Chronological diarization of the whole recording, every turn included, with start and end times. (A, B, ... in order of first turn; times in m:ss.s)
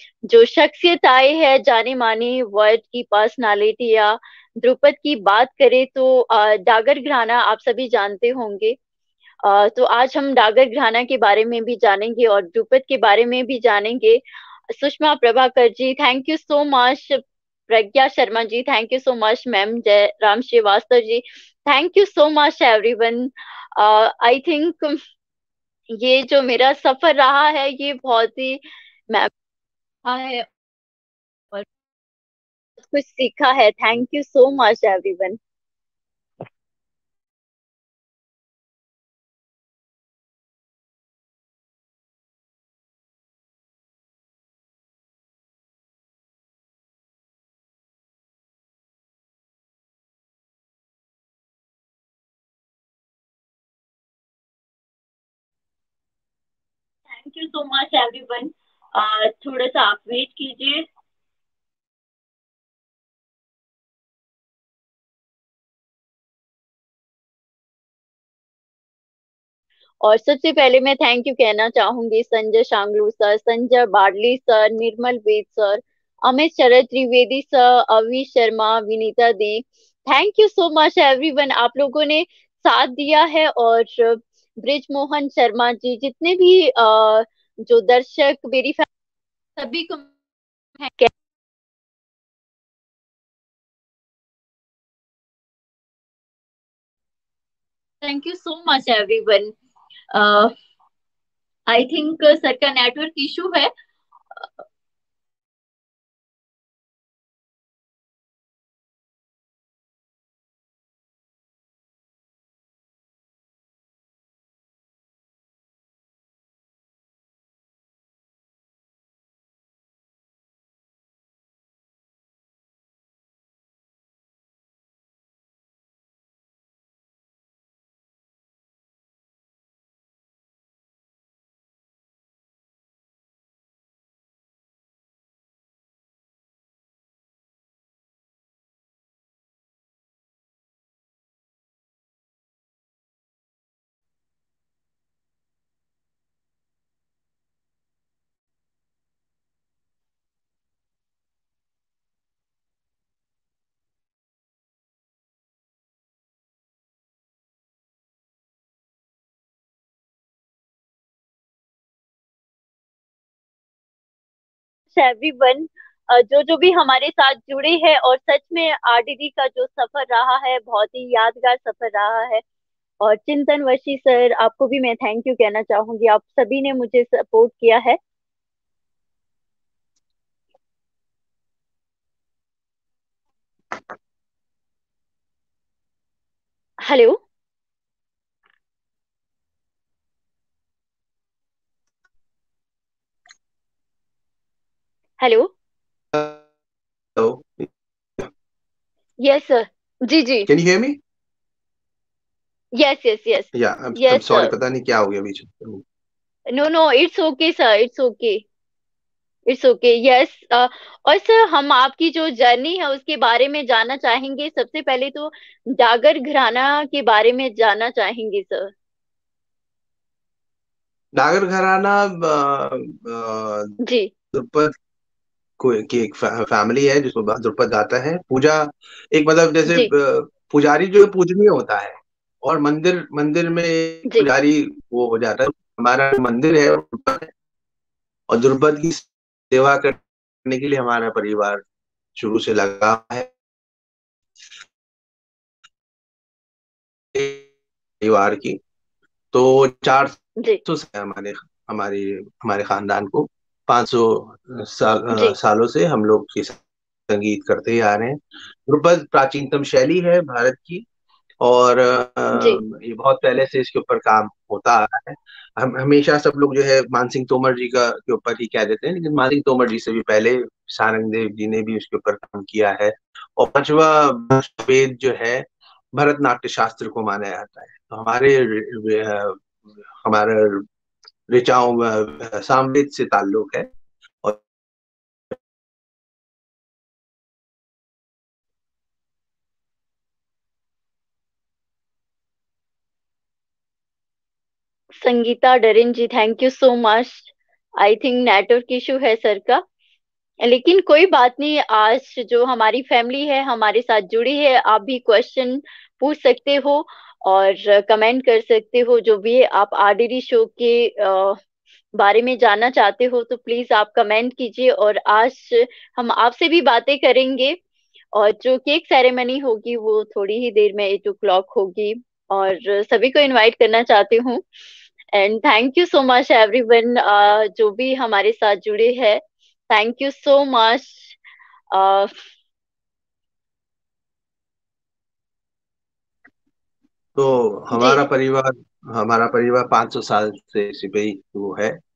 0:00.3-0:08.8 A
0:09.4-0:14.2 A
0:14.7-0:25.0 A
0:26.0-0:29.3 A
0:30.1-0:30.5 A
0:32.8-0:35.4 A
0:57.1-1:00.9 A
1:10.0-1:28.9 A
1:29.6-1:30.1 A
1:30.8-1:31.1 A
1:38.0-1:39.5 A
1:40.1-1:40.5 A
1:41.7-1:43.7 A
2:44.9-2:52.4 A
2:53.0-2:58.0 A
3:06.8-3:07.2 A
3:15.2-3:15.5 A
3:16.1-3:16.4 B
3:17.2-3:18.3 B
3:19.2-3:20.5 A
3:20.5-3:21.0 B
3:22.8-3:24.5 A
3:23.5-3:25.8 B
3:26.5-3:28.4 A
3:29.5-3:38.7 A
3:41.2-3:43.7 B
3:43.8-3:44.1 A
3:44.3-3:44.7 B
3:45.6-3:57.3 B
3:58.3-4:01.6 B
4:02.2-4:03.3 B
4:07.1-4:07.4 B
4:08.0-4:08.6 B
4:09.3-4:20.8 B
4:15.1-4:15.4 A
4:21.4-4:40.7 B
4:41.3-4:44.4 B
4:55.0-4:59.6 A
5:00.4-5:11.4 A
5:12.0-5:17.6 A
5:18.2-5:24.4 A
5:25.1-5:31.2 A
5:31.7-5:32.1 A
5:37.2-5:41.8 B
5:37.7-5:38.0 A